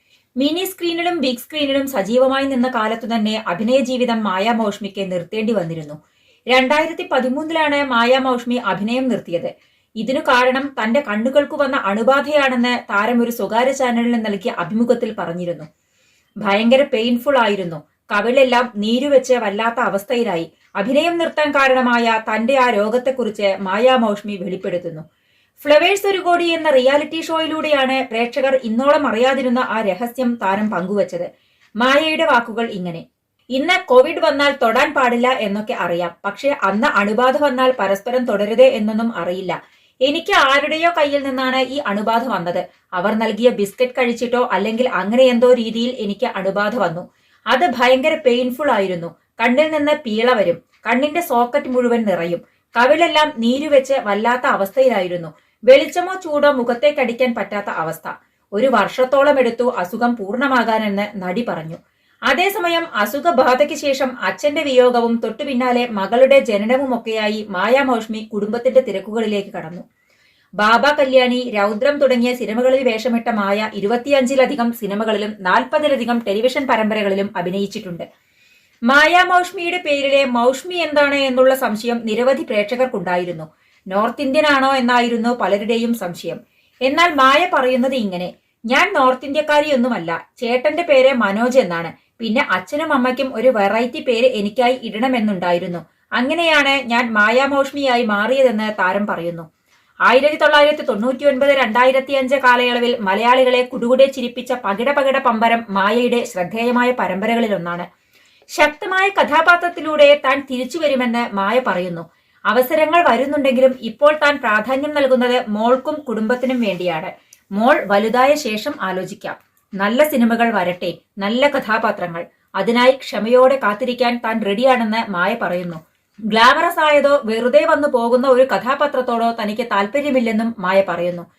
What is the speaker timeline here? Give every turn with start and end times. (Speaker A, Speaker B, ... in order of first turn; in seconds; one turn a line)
Speaker A: 0.4-6.0
Speaker A: 6.5-15.7
Speaker A: 16.4-25.0
Speaker A: 25.6-31.3
Speaker A: 31.8-33.0
Speaker A: 33.5-69.8
Speaker A: 70.6-78.0
Speaker A: 78.9-99.5
Speaker A: 100.1-107.9
Speaker A: 108.5-131.2